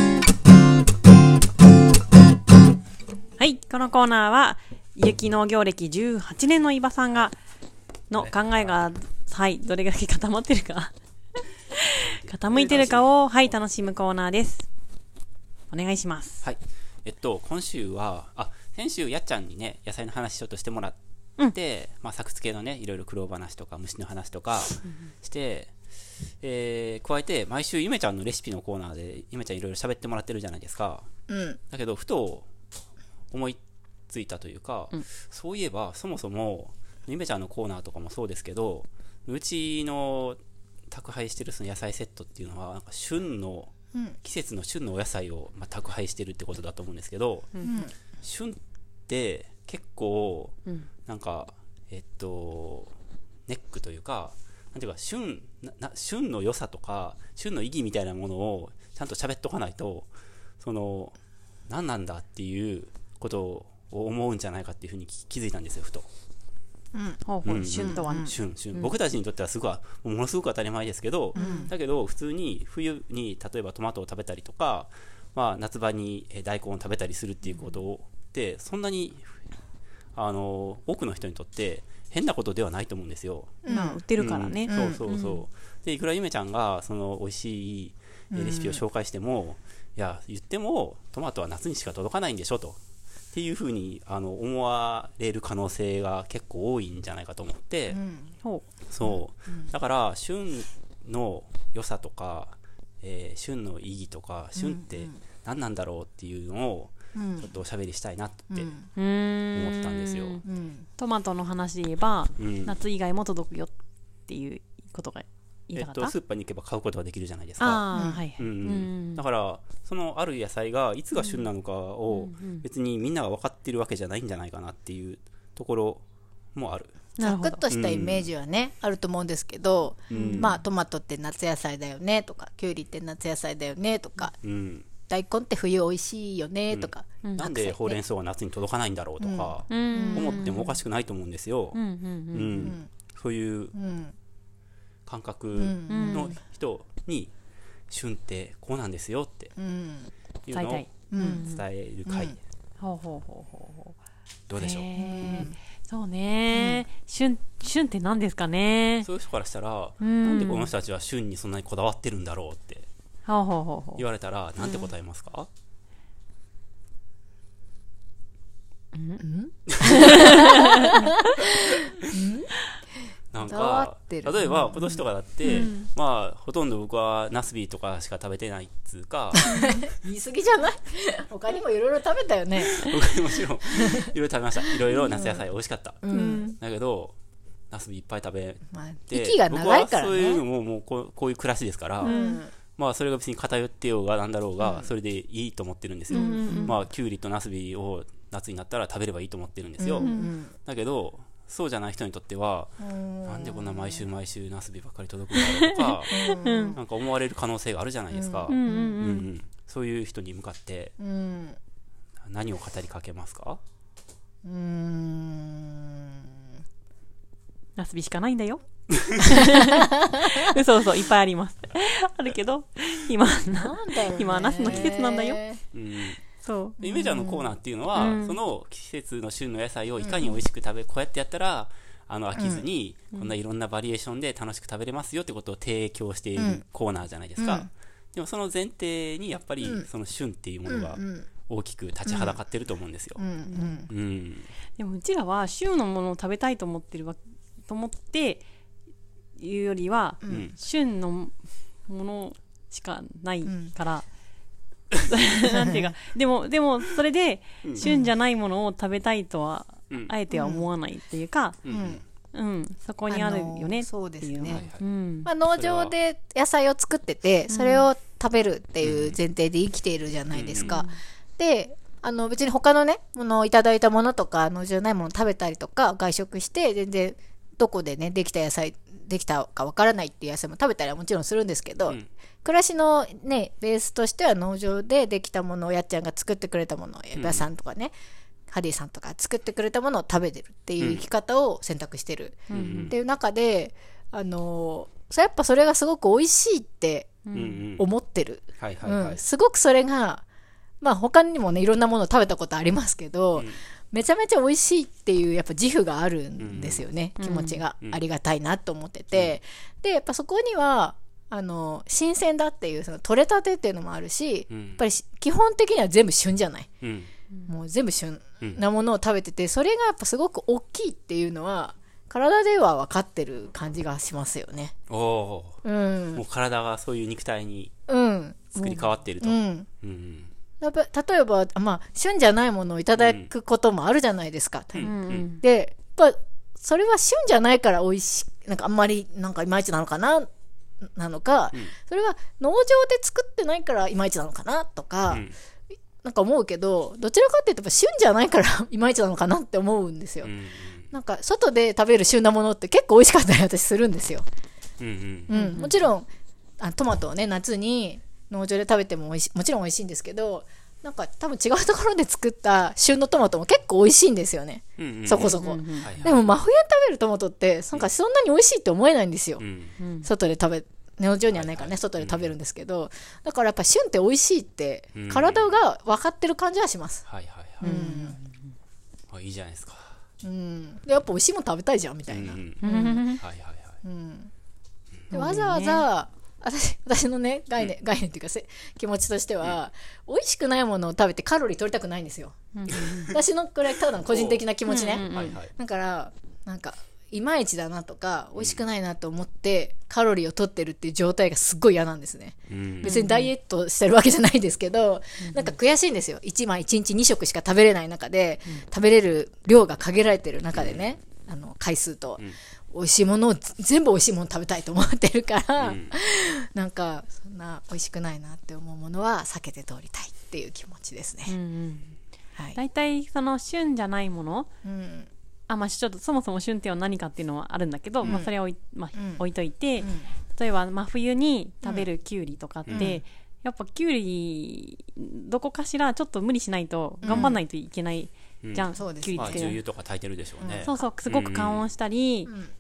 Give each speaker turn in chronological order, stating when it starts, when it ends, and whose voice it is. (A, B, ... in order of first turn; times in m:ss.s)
0:03.4-0:07.4 A
0:08.1-0:10.9 A
0:08.1-0:08.9 B
0:11.8-0:14.7 A
0:12.0-0:13.1 B
0:15.7-0:16.4 A
0:16.4-0:21.0 B
0:21.5-0:25.7 B
0:26.4-0:31.1 B
0:31.3-0:31.6 C
0:31.7-0:32.5 B
0:33.3-0:33.6 B
0:34.1-0:40.4 B
0:40.9-0:47.6 B
0:47.6-0:47.9 C
0:48.2-0:48.6 B
0:49.1-0:50.6 B
0:51.1-0:52.9 B
0:53.5-1:00.1 B
1:00.6-1:01.2 B
1:01.7-1:06.1 B
1:06.9-1:07.2 C
1:07.3-1:08.9 A
1:07.4-1:19.4 B
1:07.8-1:08.3 C
1:11.4-1:11.7 A
1:11.4-1:11.7 C
1:20.2-1:23.6 B
1:23.6-1:24.0 C
1:23.7-1:25.4 A
1:24.2-1:32.8 B
1:24.7-1:25.0 C
1:28.3-1:28.8 C
1:33.3-1:38.0 B
1:37.9-1:38.4 C
1:38.9-1:48.7 B
1:39.0-1:39.7 C
1:44.6-1:45.2 C
1:47.2-1:47.5 C
1:48.5-1:48.8 C
1:49.0-1:50.4 A
1:49.5-1:50.4 B
1:50.4-1:50.9 C
1:51.0-1:53.7 A
1:52.4-1:52.8 B
1:54.3-1:56.1 A
1:55.8-1:57.9 B
1:57.6-1:59.2 A
1:57.9-1:58.2 C
1:58.4-2:06.0 B
2:01.2-2:01.4 A
2:02.1-2:02.6 A
2:06.6-2:07.0 B
2:07.2-2:07.6 A
2:07.2-2:14.4 C
2:07.7-2:08.3 B
2:10.1-2:10.5 B
2:10.1-2:10.6 A
2:14.4-2:14.9 B
2:15.1-2:18.0 C
2:16.7-2:21.8 B
2:19.2-2:20.5 C
2:19.7-2:20.7 A
2:21.7-2:22.7 A
2:22.3-2:23.7 B
2:22.6-2:22.9 C
2:23.8-2:24.2 C
2:25.1-2:27.3 B
2:25.6-2:26.4 C
2:25.9-2:26.4 A
2:27.9-2:29.5 B
2:29.6-2:30.1 C
2:30.5-2:32.4 B
2:30.5-2:31.6 A
2:31.1-2:31.4 C
2:32.1-2:32.4 C
2:32.8-2:34.0 A
2:34.5-2:35.5 B
2:34.6-2:39.1 A
2:35.0-2:35.6 C
2:36.5-2:36.8 C
2:39.0-2:42.9 B
2:40.0-2:40.7 A
2:43.3-2:44.0 A
2:44.0-2:45.5 B
2:44.6-2:44.9 A
2:48.9-2:49.2 A
2:49.2-2:52.5 C
2:49.7-2:50.5 B
2:49.8-2:51.2 A
2:53.3-2:59.6 B
2:53.4-2:55.7 C
2:55.4-2:55.9 A
2:59.4-3:02.9 C
2:59.5-2:59.8 A
3:02.6-3:06.1 B
3:03.7-3:04.1 C
3:05.1-3:05.4 C
3:06.0-3:06.5 C
3:06.1-3:06.6 A
3:06.6-3:07.1 B
3:07.7-3:12.2 B
3:08.7-3:10.4 C
3:12.0-3:12.4 A
3:12.0-3:12.5 C
3:12.8-3:26.2 B
3:14.6-3:14.9 C
3:16.1-3:16.8 A
3:16.1-3:16.8 C
3:19.8-3:20.5 C
3:20.0-3:20.3 A
3:22.8-3:24.0 C
3:25.4-3:26.8 A
3:26.1-3:26.8 C
3:26.8-3:30.9 B
3:28.1-3:29.0 C
3:28.5-3:29.3 A
3:31.0-3:31.6 C
3:32.2-3:33.6 B
3:34.4-3:36.4 C
3:37.8-3:45.4 A
3:39.8-3:40.5 C
3:43.5-3:45.6 C
3:45.7-3:46.2 B
3:46.4-3:47.3 A
3:46.8-4:03.3 B
3:47.1-3:47.4 C
3:48.0-3:48.4 A
3:50.0-3:50.4 C
3:52.4-3:52.6 C
3:56.4-3:56.6 C
3:57.4-3:57.7 C
3:59.6-3:59.9 C
4:00.7-4:01.3 C
4:02.0-4:02.4 C
4:03.2-4:03.9 C
4:03.5-4:03.8 A
4:03.9-4:04.5 B
4:04.8-4:08.4 A
4:09.4-4:11.4 A
4:10.2-4:10.5 C
4:10.3-4:10.6 B
4:11.9-4:14.1 A
4:13.5-4:13.7 C
4:15.0-4:21.6 A
4:15.5-4:15.9 C
4:17.6-4:17.9 B
4:17.8-4:18.1 C
4:20.3-4:20.7 C
4:21.6-4:22.0 B
4:21.7-4:22.0 C
4:22.3-4:25.3 A
4:23.1-4:24.7 C
4:24.5-4:24.8 B
4:25.2-4:47.9 C
4:25.5-4:25.9 B
4:27.5-4:27.9 A
4:28.8-4:29.2 B
4:30.3-4:30.8 B
4:30.6-4:31.0 A
4:47.2-4:47.5 B
4:48.5-4:57.2 C
4:52.5-4:52.9 A
4:52.5-4:53.0 B
4:57.3-4:57.6 A
4:57.3-4:57.9 B
4:57.8-5:00.2 C
4:58.6-4:59.2 B
5:00.8-5:16.7 C
5:06.4-5:06.8 B
5:07.2-5:07.6 A
5:14.5-5:14.8 B
5:16.8-5:17.1 B
5:17.5-5:24.7 C
5:24.9-5:25.6 B
5:25.6-5:26.2 C
5:26.2-5:27.7 B
5:27.9-5:29.7 C
5:28.6-5:30.3 B
5:30.6-5:40.3 C
5:33.0-5:33.3 B
5:34.8-5:35.2 B
5:34.8-5:35.4 A
5:40.8-5:45.2 C
5:45.1-5:45.3 B
5:46.0-5:50.3 C
5:50.2-5:50.9 B
5:50.9-5:54.3 C
5:54.8-5:55.3 B
5:55.3-5:56.1 C
5:55.3-5:55.8 A
5:56.6-6:09.4 C
6:04.8-6:06.3 B
6:05.2-6:05.9 A
6:09.4-6:09.8 B
6:09.8-6:10.1 A
6:10.0-6:17.0 C
6:11.3-6:12.3 B
6:14.9-6:15.6 B
6:17.1-6:17.8 B
6:17.6-6:18.2 C
6:17.6-6:18.5 A
6:19.1-6:20.0 B
6:20.2-6:23.1 C
6:22.1-6:23.8 B
6:22.6-6:23.2 A
6:23.8-6:24.3 C
6:25.1-6:25.9 A
6:25.1-6:32.4 C
6:32.6-6:33.2 A
6:32.9-7:01.4 C
6:34.1-6:34.4 B
6:34.7-6:35.4 A
6:35.0-6:35.5 B
6:42.5-6:43.0 B
6:42.8-6:43.3 A
6:45.2-6:45.6 A
6:50.5-6:50.9 B
6:55.6-6:55.9 B
7:01.3-7:02.0 A
7:02.6-7:04.5 A
7:04.6-7:05.1 C
7:05.5-7:19.6 A
7:08.0-7:08.3 C
7:09.0-7:09.2 C
7:09.8-7:10.1 C
7:12.7-7:13.0 C
7:17.0-7:17.4 C
7:17.1-7:17.3 B
7:18.4-7:21.7 B
7:18.8-7:19.5 C
7:20.4-7:20.8 C
7:20.6-7:22.3 A
7:22.3-7:22.5 C